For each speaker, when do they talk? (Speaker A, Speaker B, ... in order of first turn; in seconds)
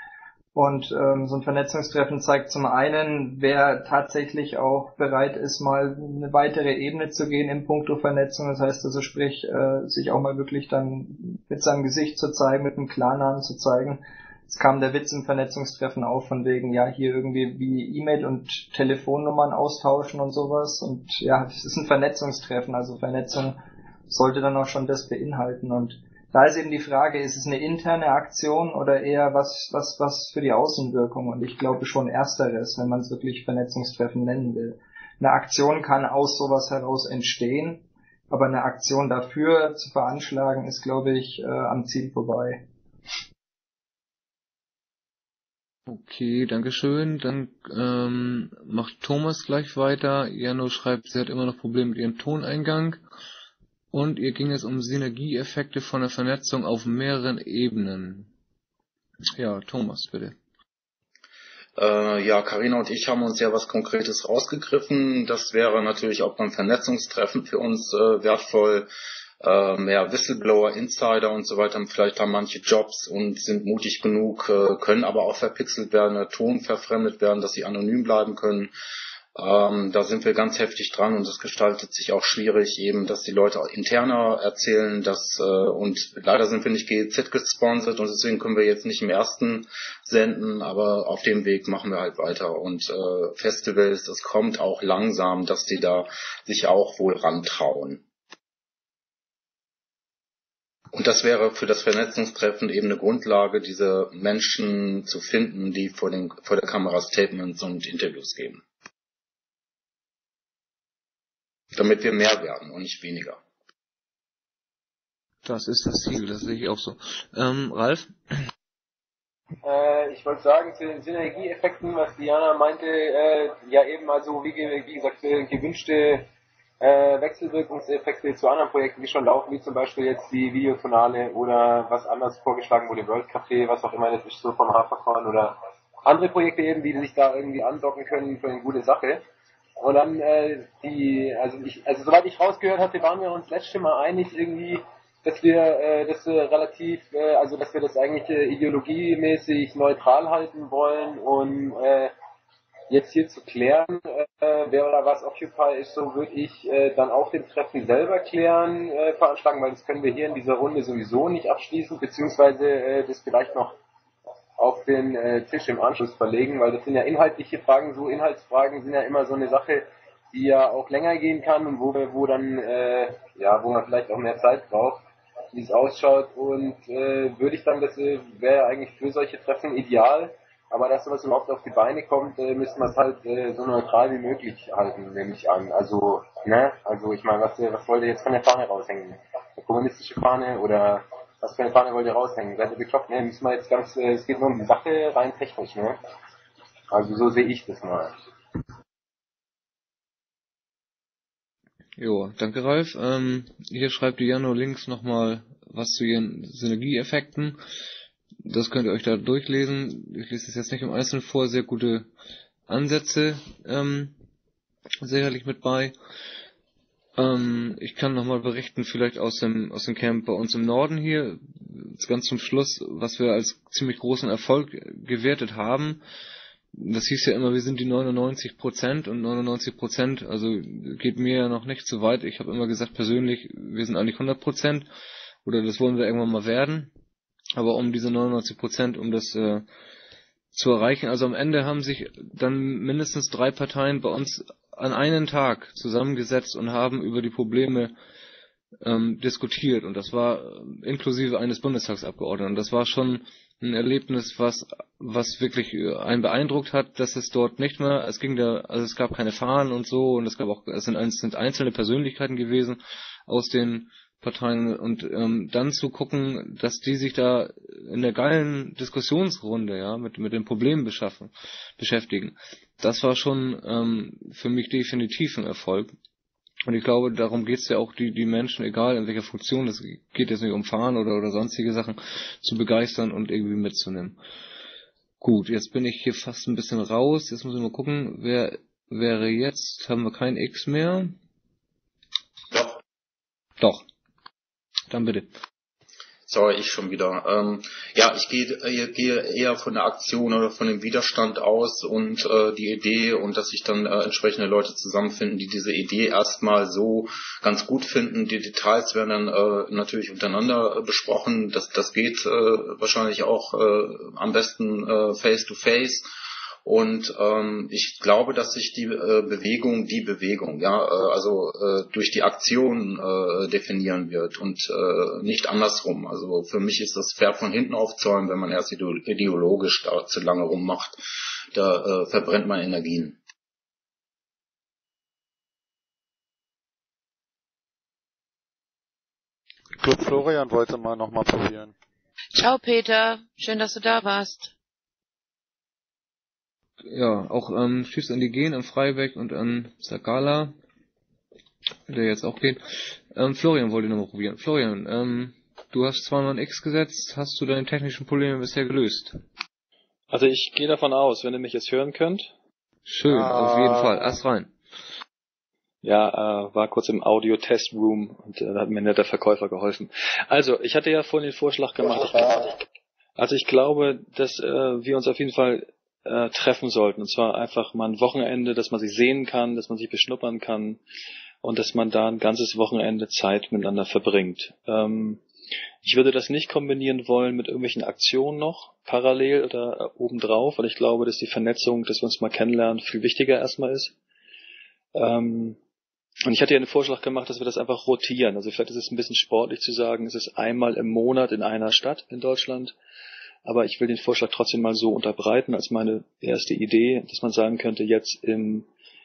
Speaker A: 0.5-42.6
Speaker B: 45.9-53.0, 53.9-58.3, 59.4-60.4, 115.4-118.1, 202.0-207.6, 208.4-212.1, 212.7-214.1, 215.0-215.9, 217.2-226.0, 226.7-234.9, 235.4-236.9, 237.6-239.6, 240.5-247.9, 248.8-275.9, 276.6-284.2, 285.2-291.1, 293.6-293.8, 294.9-295.3, 346.8-350.5, 351.9-359.2, 362.9-364.5
Speaker C: 61.8-68.9, 69.4-78.7, 79.3-98.0, 100.9-108.6, 111.7-113.4, 292.5-292.8, 296.3-316.1, 316.6-331.0, 331.5-333.2
Speaker D: 119.6-126.3, 126.8-139.2, 139.8-152.1, 152.9-163.8, 164.6-175.0, 175.5-196.0, 196.9-198.1
Speaker E: 339.8-341.7
Speaker F: 342.3-344.5
Speaker G: 360.1-362.3, 365.8-372.6, 373.2-380.8, 381.4-385.2, 385.8-393.9, 394.9-395.6, 396.2-402.7, 403.4-408.7